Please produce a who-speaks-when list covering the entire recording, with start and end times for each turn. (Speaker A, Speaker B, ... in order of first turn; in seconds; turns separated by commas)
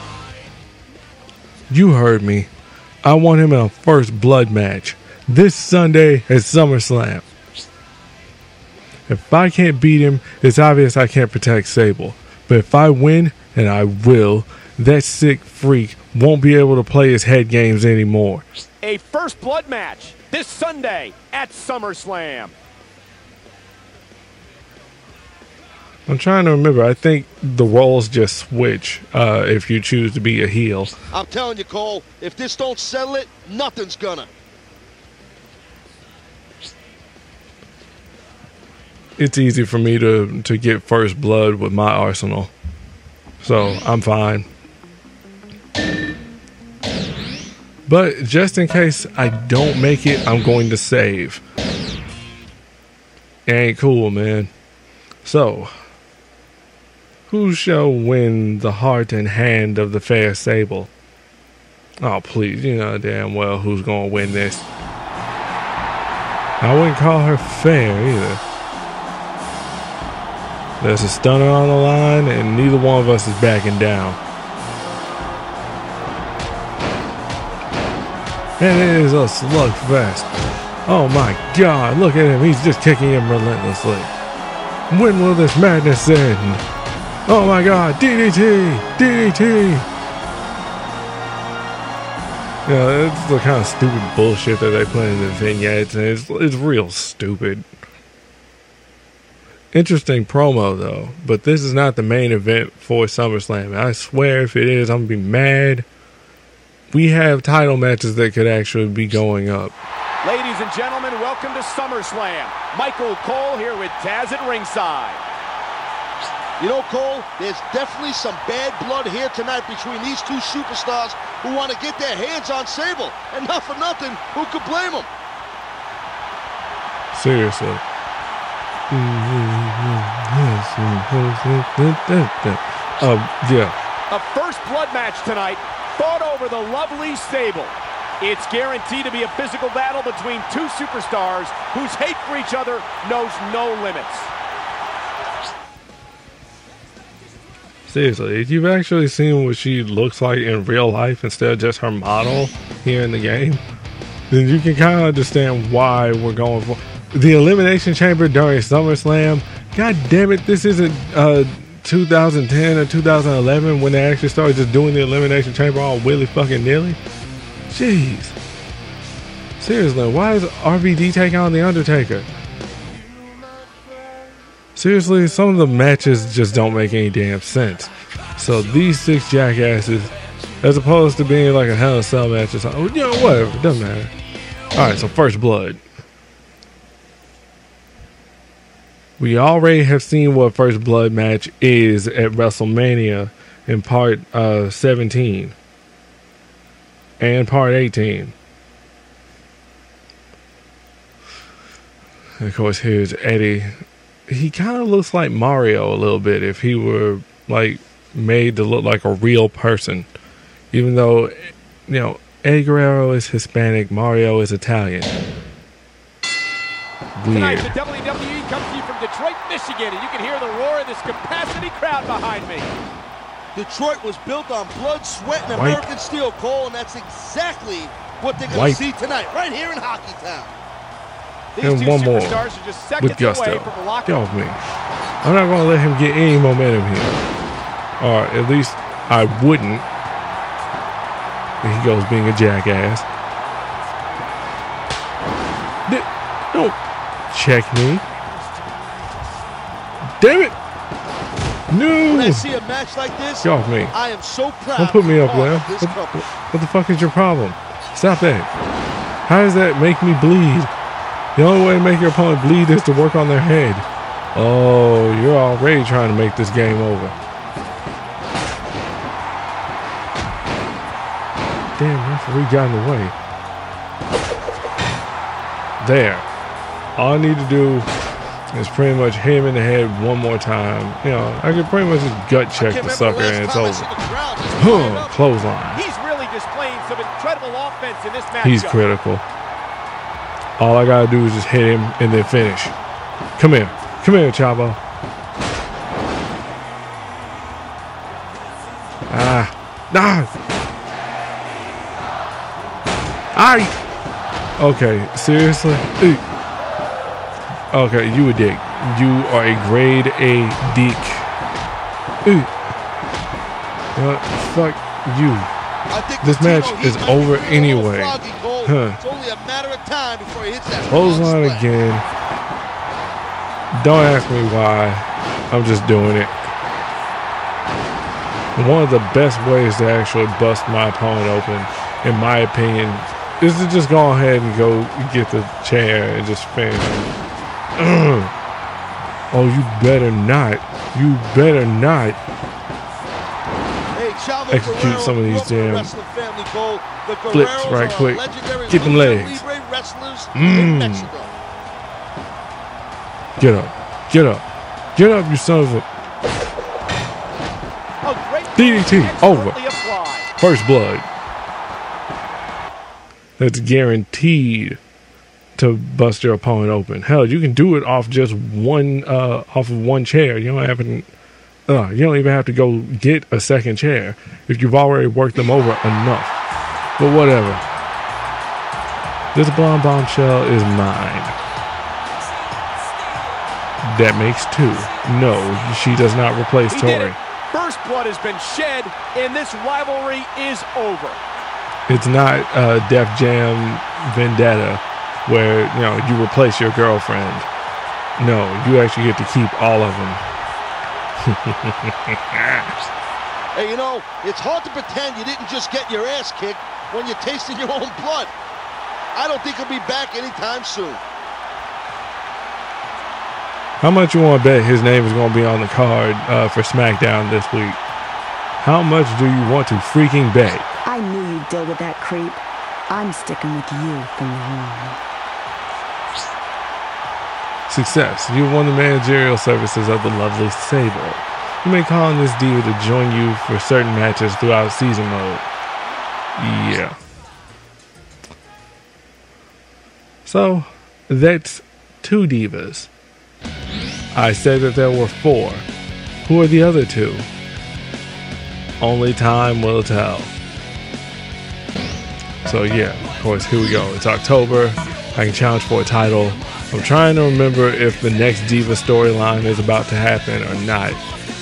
Speaker A: 1.7-2.5, Speaker A: 3.0-7.3, Speaker A: 9.1-18.4, Speaker B: 18.8-22.5, Speaker A: 26.1-30.9, Speaker C: 31.1-34.3, Speaker A: 39.2-42.5, Speaker A: 43.4-44.5, Speaker A: 47.9-51.4, Speaker A: 53.5-54.5, Speaker A: 55.2-55.7, Speaker A: 57.3-60.9, Speaker A: 62.0-64.7, Speaker A: 66.6-68.4, Speaker A: 70.8-74.2, Speaker A: 78.6-80.3, Speaker A: 80.9-84.1, Speaker A: 84.9-86.6, Speaker A: 87.3-89.9, Speaker A: 92.7-97.7, Speaker A: 99.7-105.9, Speaker A: 106.9-109.7, Speaker B: 110.2-115.2, Speaker C: 116.6-125.1, Speaker A: 127.1-127.8, Speaker A: 128.9-133.7, Speaker B: 134.1-144.3, Speaker A: 147.9-153.6, Speaker A: 154.3-167.0, Speaker A: 167.7-168.4, Speaker A: 169.6-172.3, Speaker A: 174.8-180.1, Speaker A: 180.6-184.1, Speaker A: 184.8-185.8, Speaker A: 189.2-195.6, Speaker A: 197.2-198.3, Speaker A: 202.4-203.7, Speaker A: 204.3-210.1, Speaker A: 210.7-215.1, Speaker A: 217.2-217.7, Speaker B: 217.3-222.7, Speaker C: 223.6-230.6, Speaker A: 225.5-225.8, Speaker A: 228.4-228.8, Speaker B: 231.6-234.2, Speaker A: 231.6-232.4, Speaker A: 233.0-234.6, Speaker A: 235.2-237.2, Speaker A: 238.0-239.8, Speaker A: 241.6-243.1, Speaker A: 245.9-246.8, Speaker A: 247.3-248.0, Speaker A: 250.2-250.6, Speaker A: 251.7-252.5, Speaker C: 252.1-256.2, Speaker A: 253.4-253.9, Speaker A: 254.8-258.5, Speaker A: 259.3-260.7, Speaker A: 261.4-267.2, Speaker A: 271.8-273.1, Speaker A: 275.8-276.3, Speaker A: 277.0-277.9, Speaker A: 278.5-283.9, Speaker C: 282.6-285.2, Speaker A: 284.6-285.8, Speaker B: 285.7-288.8, Speaker A: 288.4-289.2, Speaker A: 290.6-292.7, Speaker A: 293.4-294.8, Speaker A: 299.1-300.3, Speaker A: 303.3-303.7, Speaker A: 304.6-306.2, Speaker A: 307.7-311.3, Speaker A: 312.2-312.5, Speaker A: 314.0-315.5, Speaker C: 315.9-321.7, Speaker A: 316.2-319.0, Speaker A: 320.8-322.1, Speaker A: 323.7-326.5, Speaker A: 328.6-337.1, Speaker A: 337.8-338.3, Speaker A: 339.3-342.2, Speaker C: 343.9-351.3, Speaker A: 344.5-345.9, Speaker A: 347.3-349.4, Speaker A: 350.3-351.1, Speaker A: 353.4-354.4, Speaker A: 354.9-355.9, Speaker B: 358.0-360.3, Speaker A: 358.6-359.6, Speaker A: 360.4-361.1, Speaker A: 363.4-364.8, Speaker A: 365.6-371.1, Speaker A: 371.7-376.4, Speaker A: 377.0-377.6, Speaker A: 379.3-381.4, Speaker A: 383.8-387.2, Speaker B: 386.7-391.2, Speaker A: 391.9-397.5, Speaker A: 398.2-400.2, Speaker A: 401.2-402.7, Speaker C: 403.5-408.3, Speaker C: 409.1-411.0, Speaker A: 413.8-417.8, Speaker A: 418.6-420.7, Speaker D: 420.9-425.0, Speaker A: 427.7-435.5, Speaker A: 436.4-437.0, Speaker A: 440.2-442.9, Speaker A: 444.1-445.7, Speaker A: 446.2-447.3, Speaker A: 448.8-450.3, Speaker A: 452.4-461.1